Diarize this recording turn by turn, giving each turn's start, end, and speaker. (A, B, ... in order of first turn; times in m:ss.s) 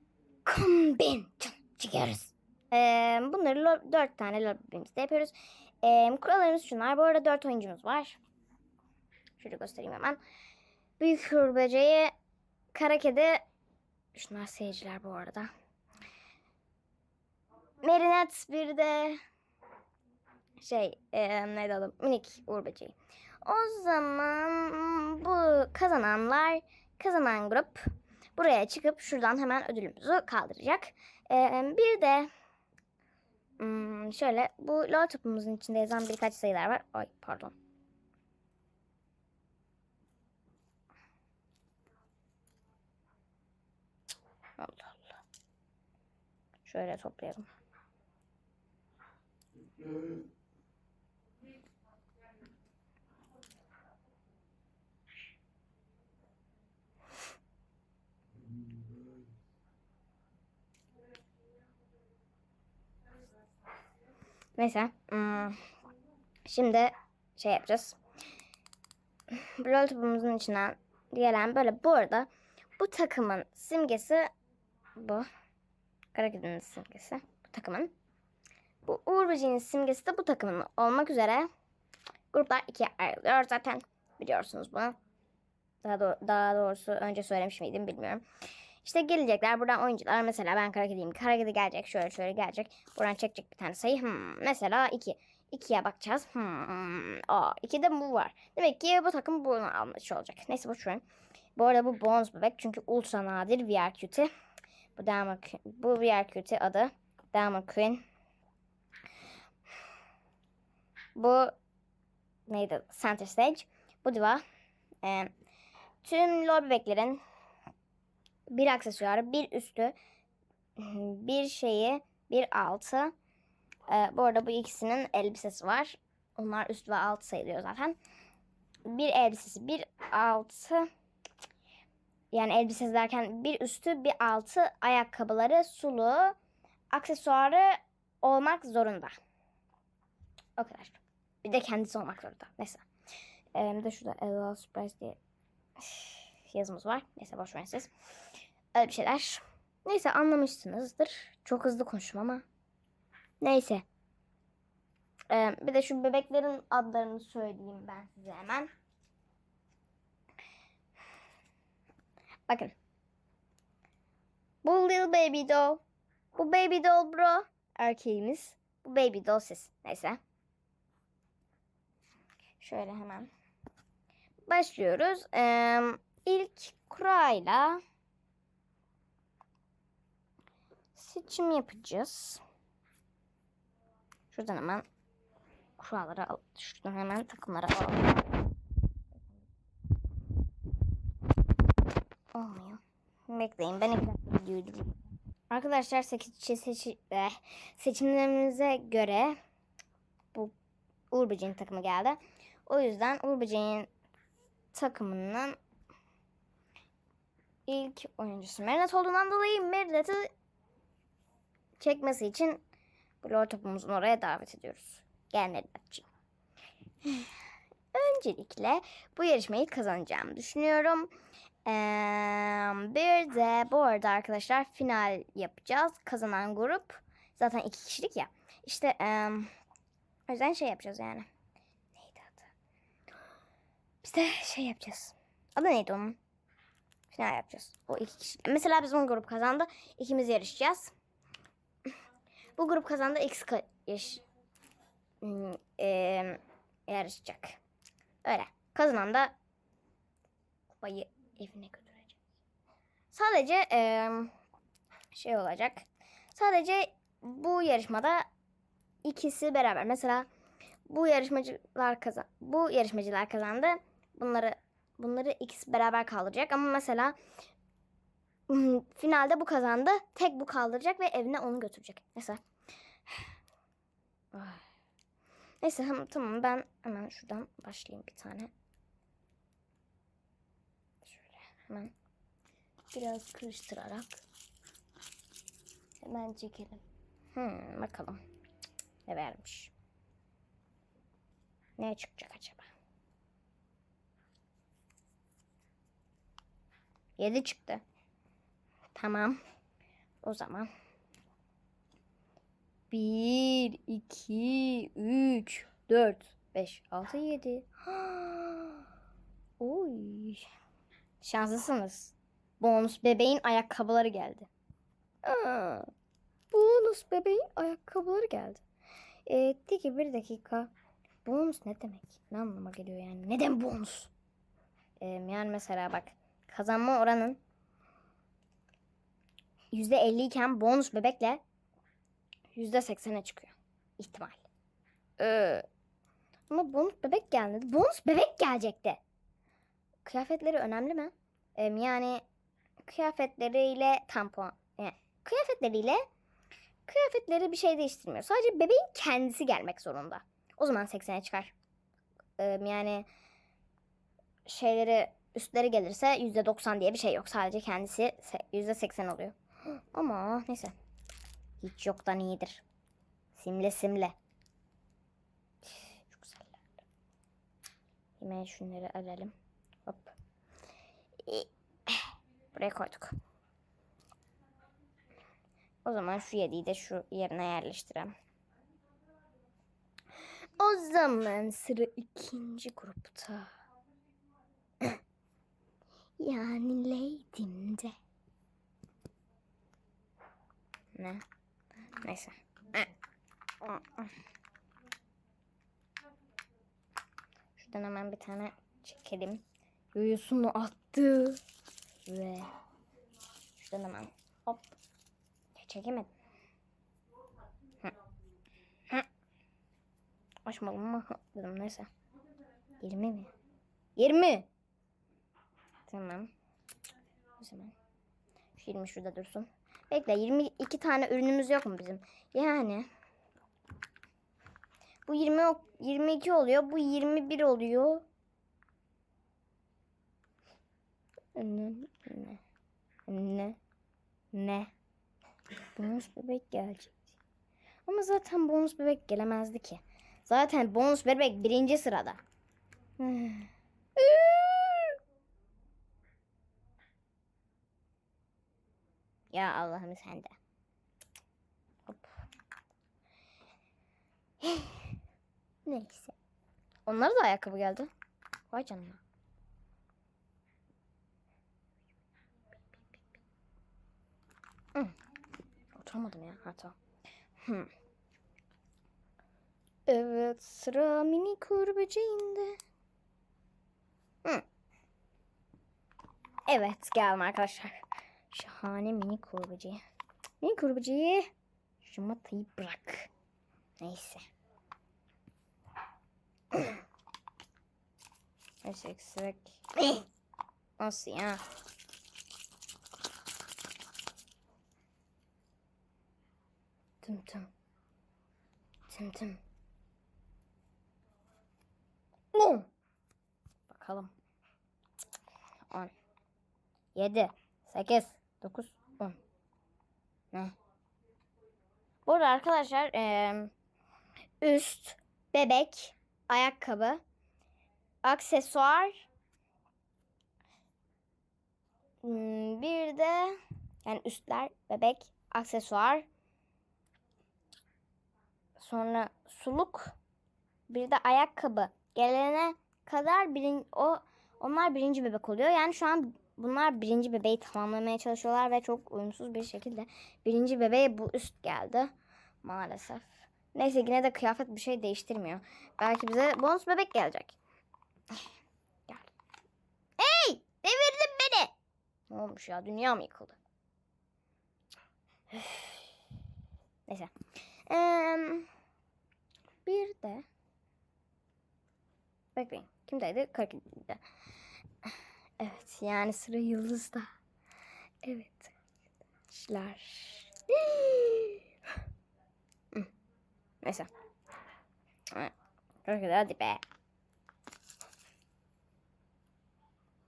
0:00.4-0:08.2 A
0:09.4-0:10.2 A
0:11.0-0:12.1 A
0:12.7-0:13.4 A
0:14.1-0:15.5 A
0:17.8-0:19.2 A
0:20.6-0:27.8 A
0:28.4-0:32.3 A
0:33.6-0:37.6 A
0:44.6-0:45.1 A
0:46.6-0:47.5 A
1:04.6-1:05.6 A
1:06.4-1:08.0 A
1:09.3-1:14.3 A
1:15.0-1:15.3 A
1:16.1-1:17.9 A
1:18.8-1:21.5 A
1:22.3-1:25.0 A
1:25.8-1:28.2 A
1:28.8-1:41.0 A
1:41.6-1:44.3 A
1:45.0-1:48.0 A
1:51.1-1:51.5 A
1:52.5-1:54.4 A
1:55.0-1:55.3 A
1:56.0-1:57.2 A
1:58.5-1:59.9 A
2:00.8-2:03.1 A
2:03.9-2:08.0 A
2:08.8-2:10.9 A
2:12.3-2:16.4 A
2:16.9-2:19.1 A
2:20.6-2:22.8 A
2:23.5-2:25.2 A
2:25.8-2:27.9 A
2:28.7-2:32.4 A
2:33.4-2:33.8 A
2:35.3-2:38.7 A
2:42.5-2:42.7 A
2:44.6-2:45.8 A
2:46.3-2:50.2 A
2:52.6-2:53.3 A
2:54.5-2:57.8 A
3:00.9-3:02.4 A
3:04.3-3:04.8 A
3:05.8-3:08.4 A
3:12.3-3:14.9 A
3:15.5-3:19.4 A
3:21.1-3:23.9 A
3:24.7-3:25.6 A
3:27.6-3:30.3 A
3:31.8-3:32.6 A
3:33.2-3:36.1 A
3:37.0-3:37.3 A
3:37.9-3:41.1 A
3:41.6-3:49.5 A
3:50.3-3:51.3 A
3:51.9-3:52.5 A
3:54.0-3:56.2 A
3:57.1-4:00.9 A
4:02.6-4:04.2 A
4:05.2-4:07.6 A
4:08.2-4:09.3 A
4:10.7-4:12.2 A
4:13.1-4:14.3 A
4:15.1-4:18.2 A
4:19.0-4:20.3 A
4:20.9-4:27.2 A
4:28.5-4:32.4 A
4:34.3-4:34.6 A
4:35.6-4:38.5 A
4:41.0-4:41.9 A
4:42.9-4:44.2 A
4:46.0-4:46.8 A
4:47.3-4:48.2 A
4:49.1-4:49.7 A
4:51.8-4:52.7 A
4:57.2-4:57.8 A
4:58.9-4:59.4 A
5:00.2-5:00.7 A
5:02.9-5:08.8 A
5:09.6-5:10.5 A
5:11.2-5:14.5 A
5:15.2-5:15.9 A
5:16.5-5:18.6 A
5:19.2-5:20.7 A
5:21.2-5:24.1 A
5:25.0-5:27.4 A
5:29.7-5:31.4 A
5:32.5-5:34.4 A
5:35.2-5:35.6 A
5:36.5-5:39.0 A
5:40.0-5:42.2 A
5:42.8-5:46.0 A
5:46.8-5:51.5 A
5:52.4-5:53.1 A
5:54.4-6:00.7 A
6:01.6-6:02.6 A
6:03.3-6:04.1 A
6:05.6-6:06.6 A
6:08.2-6:09.3 A
6:09.8-6:10.1 A
6:11.2-6:13.1 A
6:15.8-6:18.1 A
6:20.6-6:23.5 A
6:26.2-6:27.9 A
6:30.9-6:31.2 A
6:32.0-6:32.9 A
6:33.6-6:34.1 A
6:37.6-6:39.4 A
6:39.9-6:41.4 A
6:42.0-6:42.5 A
6:43.6-6:44.8 A
6:45.6-6:46.1 A
6:50.4-6:51.9 A
6:52.8-6:53.3 A
6:54.0-6:54.5 A
6:55.9-6:56.3 A
6:57.4-6:57.7 A
6:58.6-7:02.9 A
7:05.1-7:08.0 A
7:11.3-7:12.4 A
7:13.1-7:13.6 A
7:14.3-7:14.7 A
7:15.7-7:17.1 A
7:17.8-7:22.2 A
7:23.0-7:25.0 A
7:29.3-7:30.3 A
7:34.4-7:35.0 A
7:35.6-7:36.1 A
7:36.8-7:37.9 A
7:38.5-7:39.0 A
7:45.7-7:46.8 A
7:47.4-7:47.7 A
7:49.9-7:52.6 A
7:56.5-7:59.8 A
8:00.4-8:01.3 A
8:01.8-8:03.1 A
8:03.8-8:04.3 A
8:06.5-8:06.8 A
8:08.6-8:10.0 A
8:10.8-8:11.4 A
8:17.0-8:17.5 A
8:18.9-8:19.4 A
8:22.3-8:22.7 A
8:23.7-8:24.1 A
8:26.9-8:29.2 A
8:32.0-8:33.5 A
8:34.4-8:37.0 A
8:38.0-8:39.1 A
8:42.0-8:46.0 A
8:48.6-8:49.9 A
8:50.7-9:01.9 A
9:02.4-9:07.4 A
9:10.0-9:11.5 A
9:12.1-9:13.4 A
9:15.3-9:15.9 A
9:17.7-9:18.5 A
9:19.6-9:20.3 A
9:22.3-9:24.0 A
9:24.8-9:27.1 A
9:28.0-9:28.5 A
9:29.3-9:31.4 A
9:33.6-9:33.9 A
9:35.8-9:36.6 A